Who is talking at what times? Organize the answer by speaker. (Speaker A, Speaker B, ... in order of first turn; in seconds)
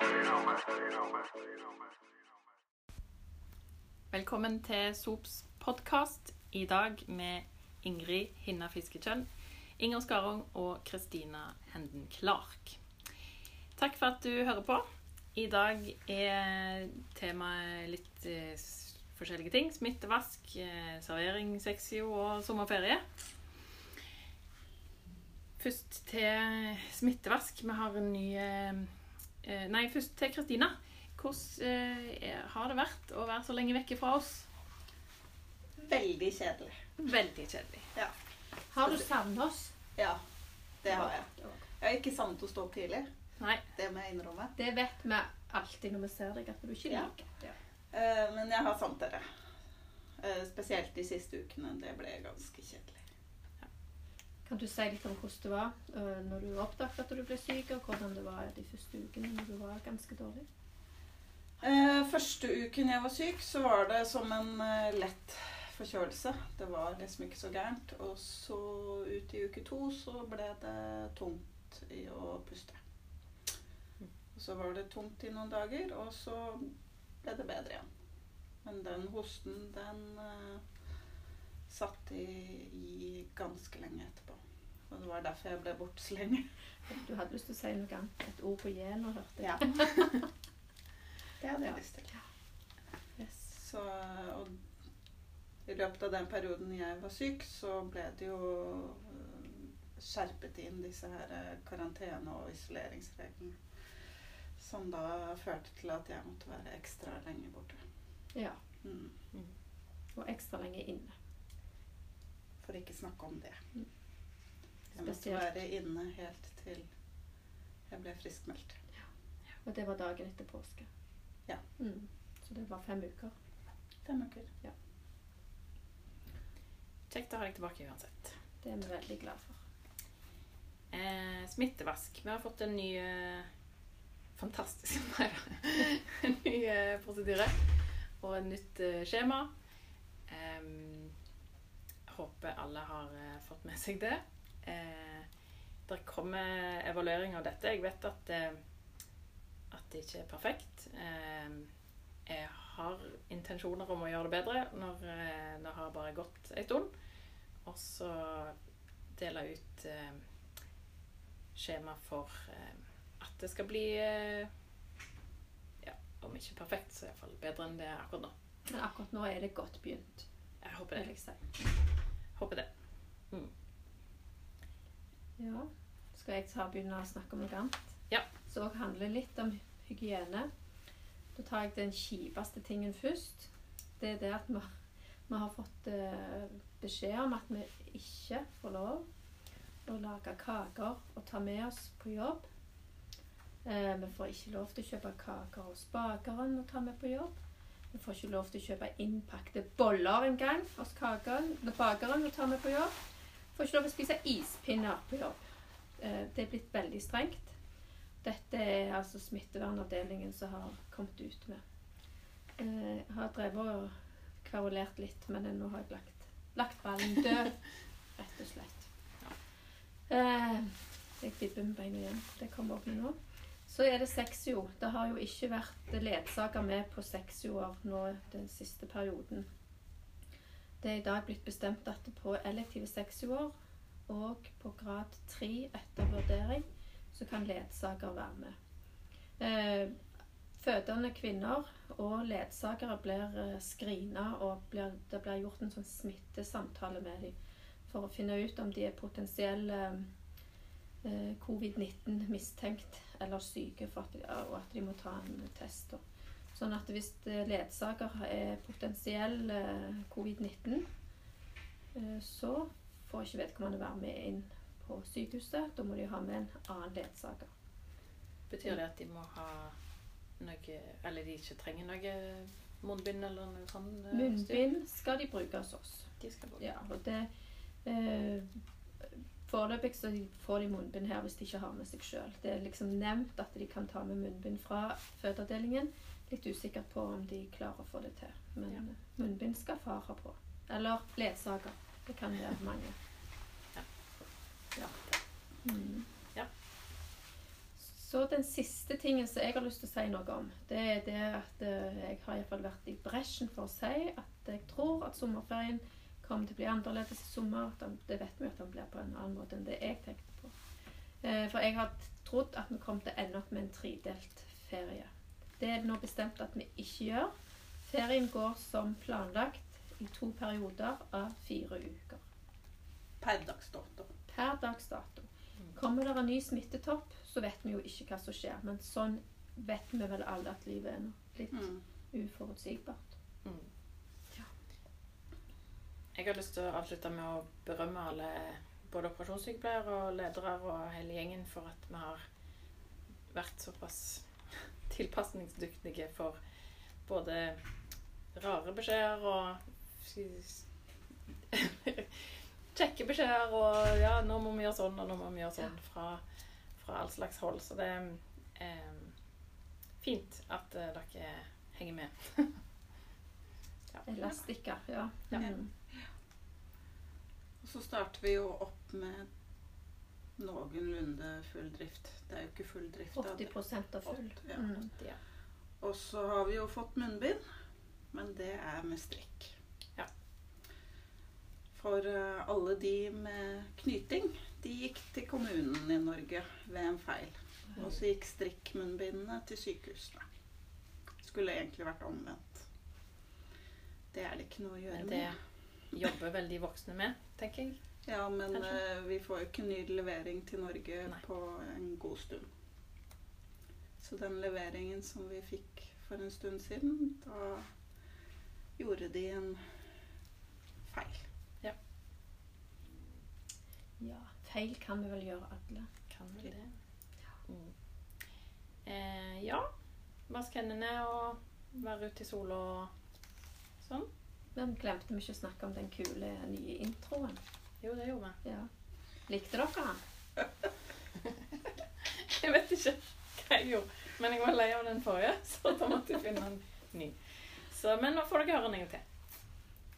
Speaker A: 4.1-9.2, 9.8-12.8, 13.8-14.8, 15.3-23.0, 25.6-34.5, 37.0-37.9, 43.4-43.6, 127.1-128.3, 130.9-133.5, 134.3-139.5, 140.3-141.1, 142.1-145.3, 145.9-148.6, 149.7-151.7, 152.3-156.9, 157.6-158.5, 159.1-160.2, 161.6-164.5, 165.8-168.3, 170.6-171.1, 172.3-172.7, 268.5-269.7, 270.4-274.6, 276.2-276.6, 333.4-333.7, 336.1-342.2, 343.3-346.4, 347.0-347.6, 348.3-350.6, 351.5-356.2, 356.8-359.1, 360.0-362.6, 394.9-395.4, 395.9-397.8, 398.5-398.8, 416.1-416.7, 417.4-417.7, 418.9-419.7, 420.3-422.9, 423.8-424.1, 427.8-428.4, 432.0-439.0
Speaker B: 35.8-36.8, 40.0-40.2, 40.8-43.1, 43.7-44.5, 46.9-47.1, 47.9-49.2, 50.2-53.0, 61.6-72.8, 74.3-77.8, 78.6-80.6, 81.7-84.4, 84.9-86.5, 89.4-90.2, 91.4-92.1, 93.5-94.5, 95.7-103.6, 104.6-107.8, 108.8-109.1, 112.6-113.6, 114.9-116.9, 117.9-118.8, 124.0-124.5, 323.2-324.1, 331.5-331.8, 367.6-369.3, 370.4-373.5, 374.1-374.6, 375.8-377.4, 378.1-379.5, 381.7-390.2, 391.2-392.6, 394.1-395.3, 398.1-402.5, 404.0-407.7, 408.8-409.6, 410.9-411.2
Speaker C: 38.7-39.7, 40.9-41.6, 44.5-47.5, 54.5-60.5, 86.9-90.1, 91.6-92.2, 93.2-93.5, 108.3-108.6, 110.1-111.1, 114.9-115.6, 119.6-120.9, 121.8-123.3, 128.6-129.6, 168.7-170.3, 170.9-171.4, 175.4-177.9, 178.4-180.5, 181.3-184.7, 185.3-189.1, 189.8-192.4, 193.6-197.3, 197.9-202.9, 203.5-205.4, 206.0-207.6, 208.2-211.6, 212.6-218.9, 220.1-229.4, 230.8-233.5, 234.1-238.5, 239.4-240.0, 240.6-247.3, 247.9-250.1, 251.0-256.0, 256.5-260.9, 261.9-267.5, 274.1-277.3, 277.8-278.6, 279.1-292.9, 295.6-296.1, 297.8-310.5, 311.2-317.3, 317.8-322.2, 324.3-333.1, 364.0-365.7, 373.1-374.9, 414.0-415.9, 424.5-427.4, 428.4-428.7, 429.3-430.0